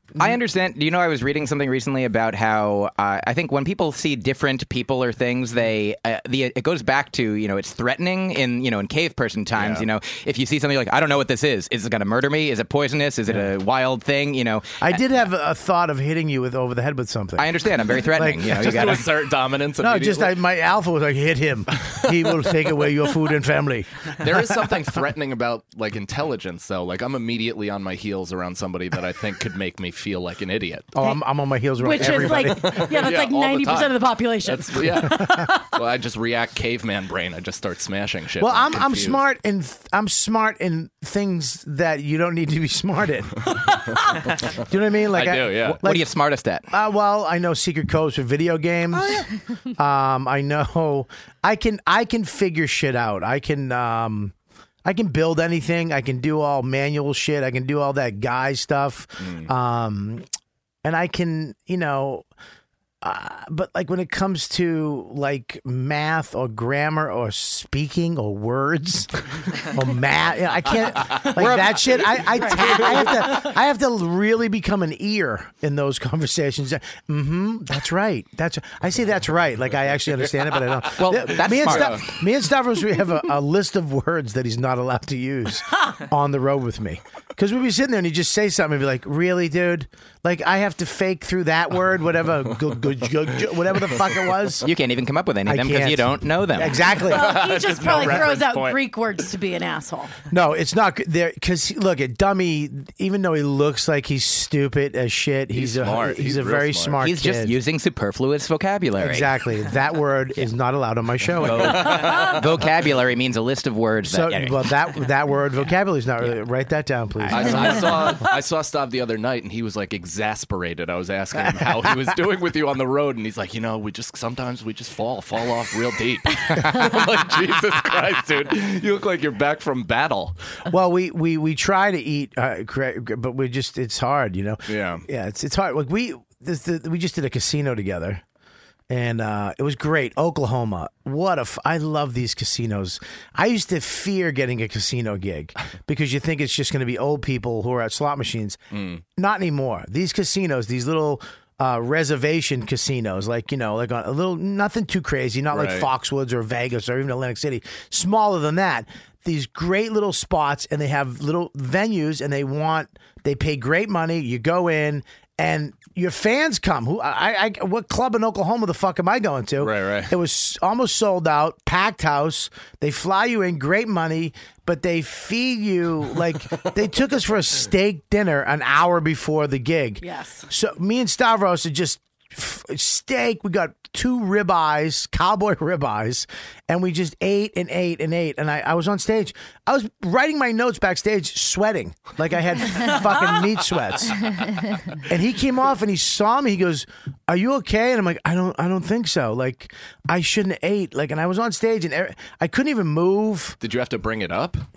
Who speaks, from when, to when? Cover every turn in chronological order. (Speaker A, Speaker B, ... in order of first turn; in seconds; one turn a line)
Speaker A: 0.2-15.0
Speaker B: 9.5-9.8
Speaker C: 14.8-17.5
Speaker A: 17.4-19.1
Speaker C: 18.1-18.9
Speaker B: 18.5-20.3
Speaker C: 19.8-24.3
Speaker B: 24.2-30.9
Speaker C: 30.9-32.9
Speaker D: 31.8-35.4
Speaker B: 32.0-39.2
Speaker C: 35.1-35.5
Speaker C: 38.4-43.5
Speaker C: 44.6-46.1
Speaker B: 45.1-45.8
Speaker A: 45.8-46.6
Speaker C: 46.7-54.3
Speaker C: 54.8-60.2
Speaker C: 60.8-62.3
Speaker C: 63.0-94.7
Speaker A: 81.0-82.1
Speaker B: 81.6-81.9
Speaker A: 94.6-96.9
Speaker C: 95.5-97.3
Speaker B: 96.9-98.8
Speaker D: 97.0-100.2
Speaker C: 97.9-98.2
Speaker C: 100.3-107.6
Speaker B: 105.5-107.0
Speaker A: 107.0-109.3
Speaker C: 109.0-112.2
Speaker A: 111.4-114.6
Speaker B: 111.5-112.3
Speaker C: 114.1-118.0
Speaker B: 117.3-130.4
Speaker C: 130.7-138.2
Speaker B: 134.7-135.0
Speaker C: 138.9-148.6
Speaker B: 148.7-149.0
Speaker C: 149.2-194.3
Speaker B: 155.5-155.9
Speaker B: 169.6-170.1
Speaker D: 180.0-180.5
Speaker C: 195.0-203.6
Speaker B: 203.6-204.6